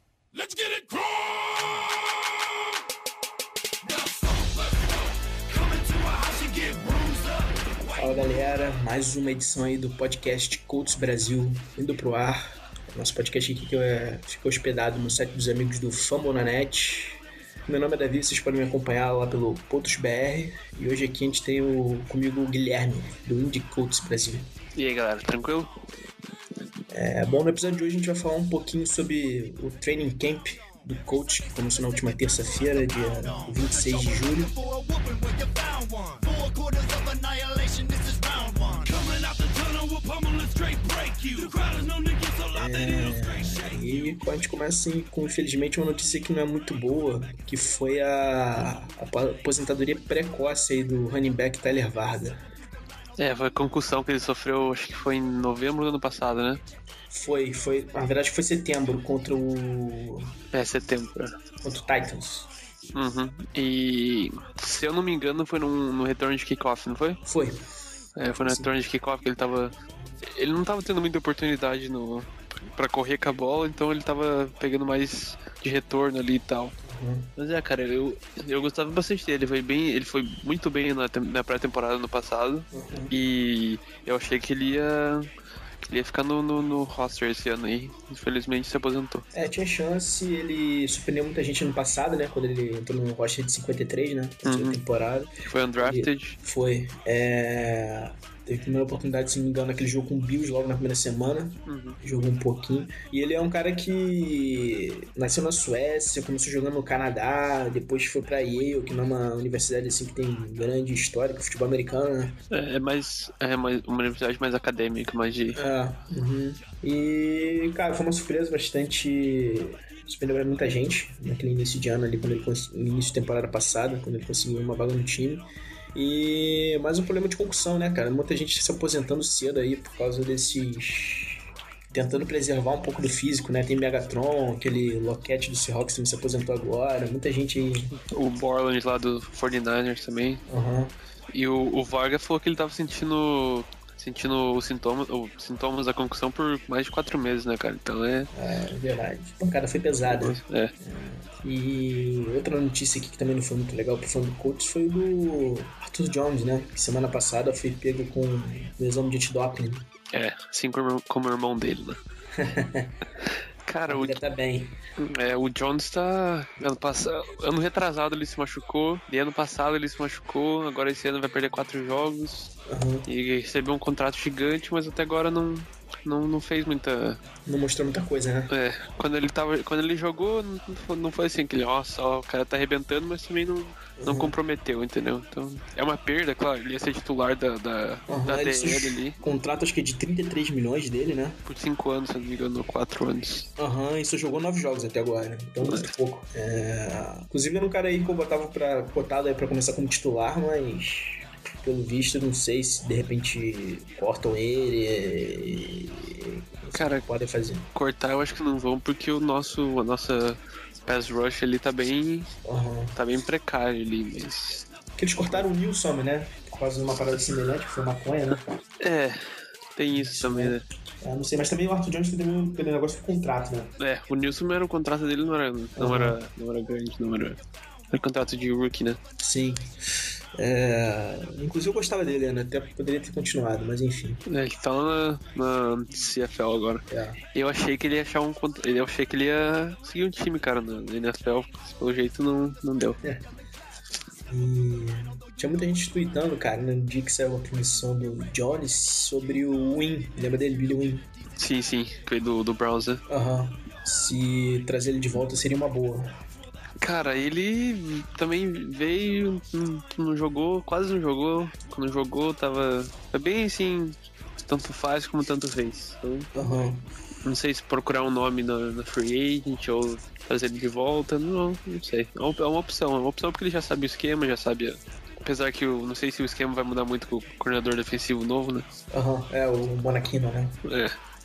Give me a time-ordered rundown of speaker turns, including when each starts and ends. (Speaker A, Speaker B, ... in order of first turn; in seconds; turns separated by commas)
Speaker A: 0.3-1.9, Speaker A: 3.8-8.2, Speaker B: 8.0-24.5, Speaker C: 24.8-25.8, Speaker B: 26.9-34.6, Speaker A: 33.3-43.9, Speaker B: 42.5-52.4, Speaker C: 53.2-56.6, Speaker B: 57.1-60.4, Speaker C: 60.5-61.4, Speaker B: 61.6-62.5, Speaker C: 62.9-67.2, Speaker B: 67.2-67.6, Speaker C: 68.2-76.7, Speaker B: 76.8-77.3, Speaker C: 77.4-85.3, Speaker B: 82.7-83.1, Speaker C: 85.9-89.3, Speaker B: 89.3-112.4, Speaker C: 94.4-94.8, Speaker C: 95.5-96.4, Speaker C: 101.7-102.0, Speaker C: 112.5-115.6, Speaker B: 115.5-137.9, Speaker C: 137.9-140.4, Speaker B: 140.5-140.9, Speaker C: 141.3-148.3, Speaker B: 148.3-159.9, Speaker C: 150.1-150.7, Speaker C: 160.1-162.0, Speaker B: 162.3-162.9, Speaker C: 163.7-164.2, Speaker B: 163.9-164.8, Speaker C: 165.0-172.5, Speaker B: 172.7-173.1, Speaker C: 173.1-177.2, Speaker B: 177.5-178.5, Speaker C: 178.5-189.2, Speaker B: 184.0-184.4, Speaker B: 188.1-191.4, Speaker C: 191.5-193.5, Speaker B: 193.6-207.7, Speaker C: 195.6-195.9, Speaker C: 206.7-207.1, Speaker C: 207.7-212.3, Speaker B: 212.4-213.0, Speaker C: 212.9-214.7, Speaker B: 215.0-218.4, Speaker C: 218.8-219.2, Speaker C: 219.8-220.7, Speaker B: 219.9-223.7, Speaker C: 223.8-227.4, Speaker B: 225.8-226.2, Speaker C: 227.9-229.0, Speaker B: 229.2-229.8, Speaker B: 230.3-234.2, Speaker C: 234.2-243.0, Speaker B: 236.9-237.2, Speaker B: 244.3-251.1, Speaker C: 251.4-253.0, Speaker B: 253.1-256.1, Speaker C: 256.8-266.3, Speaker B: 266.4-266.9, Speaker C: 267.2-278.7, Speaker B: 278.9-280.6, Speaker C: 280.6-281.0